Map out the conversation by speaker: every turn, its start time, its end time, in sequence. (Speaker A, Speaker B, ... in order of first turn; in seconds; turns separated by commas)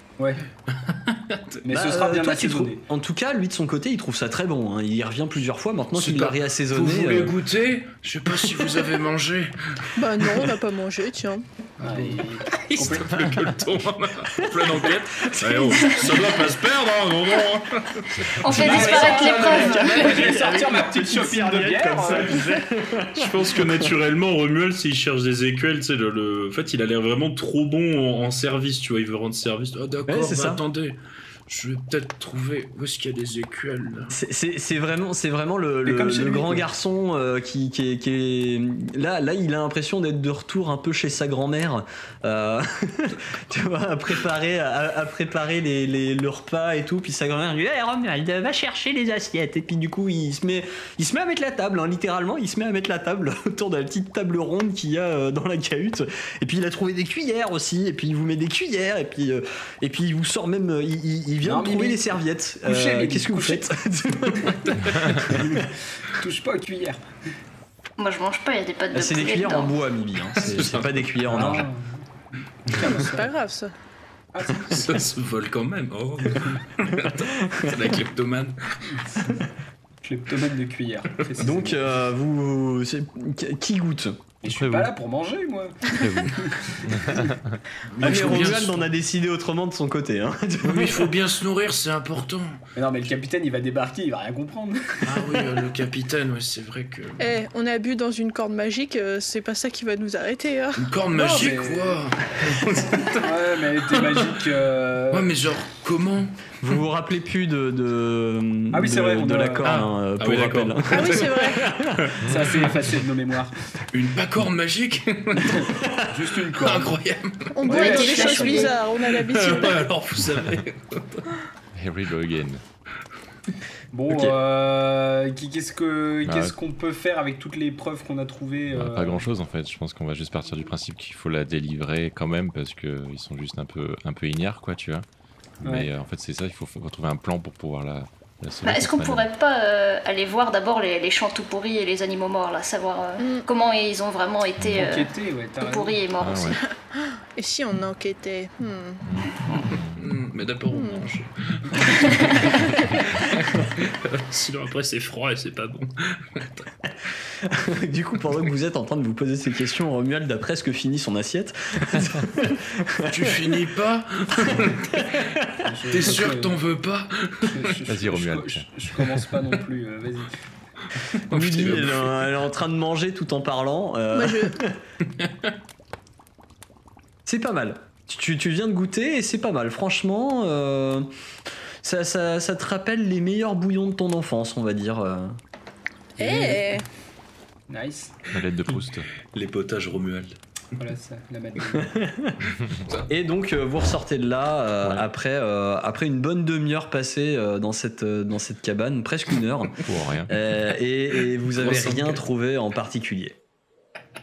Speaker A: 0.2-0.4, Speaker B: 0.7-1.6, Speaker A: 1.6-2.8, Speaker C: 1.7-7.4, Speaker B: 6.0-10.5, Speaker D: 10.0-11.4, Speaker B: 11.8-18.4, Speaker A: 11.8-13.4, Speaker C: 15.2-15.7, Speaker E: 15.7-16.1, Speaker E: 18.4-20.2, Speaker C: 18.4-23.8, Speaker A: 18.5-22.5, Speaker B: 23.1-34.1, Speaker C: 30.1-30.6, Speaker C: 34.1-65.7, Speaker A: 35.9-36.7, Speaker A: 61.4-63.7, Speaker A: 65.3-67.0, Speaker E: 68.0-69.7, Speaker C: 68.9-71.7, Speaker B: 70.3-71.6, Speaker A: 71.3-72.0, Speaker A: 72.7-73.3, Speaker D: 72.8-73.7, Speaker A: 74.3-75.1, Speaker B: 74.5-79.4, Speaker A: 80.0-81.8, Speaker C: 81.4-84.2, Speaker A: 84.4-87.3, Speaker F: 84.5-84.9, Speaker F: 85.9-87.6, Speaker B: 87.9-88.9, Speaker C: 88.0-91.2, Speaker B: 90.6-92.6, Speaker A: 92.8-95.4, Speaker B: 95.0-97.3, Speaker D: 97.2-101.4, Speaker B: 100.8-104.4, Speaker A: 101.2-102.0, Speaker A: 103.0-105.3, Speaker B: 105.1-106.5, Speaker C: 106.6-112.2, Speaker A: 108.7-109.7, Speaker B: 109.6-112.8, Speaker D: 110.9-111.7, Speaker A: 112.2-113.6, Speaker B: 113.9-115.8, Speaker A: 115.5-117.0, Speaker C: 115.6-116.1, Speaker B: 116.4-117.6, Speaker D: 117.5-119.9, Speaker A: 117.7-118.8, Speaker E: 117.7-118.8, Speaker B: 119.0-121.4, Speaker F: 121.7-122.6, Speaker A: 123.9-129.3, Speaker F: 126.2-126.5, Speaker F: 128.7-135.1, Speaker F: 135.6-139.2, Speaker A: 135.6-135.9, Speaker E: 138.6-146.6, Speaker D: 143.2-143.4, Speaker F: 144.6-144.9, Speaker A: 144.7-146.0, Speaker F: 146.2-146.6, Speaker D: 147.4-149.0, Speaker F: 149.0-150.0, Speaker B: 149.6-156.7, Speaker D: 150.7-151.1, Speaker D: 152.2-152.8, Speaker C: 157.4-163.7, Speaker B: 163.1-165.3, Speaker C: 164.4-165.7, Speaker A: 165.6-166.6, Speaker B: 165.9-167.8, Speaker A: 167.4-170.3, Speaker F: 167.9-168.7, Speaker B: 171.0-172.4, Speaker C: 171.3-174.8, Speaker D: 174.1-174.6, Speaker B: 175.1-175.5, Speaker C: 177.3-181.1, Speaker C: 181.8-185.4, Speaker D: 186.2-186.8, Speaker C: 186.2-186.6, Speaker A: 187.7-188.2, Speaker F: 188.3-189.1, Speaker B: 189.3-190.3, Speaker A: 190.8-191.9, Speaker C: 191.8-192.4, Speaker C: 193.1-203.4, Speaker F: 199.8-200.3, Speaker B: 201.6-202.2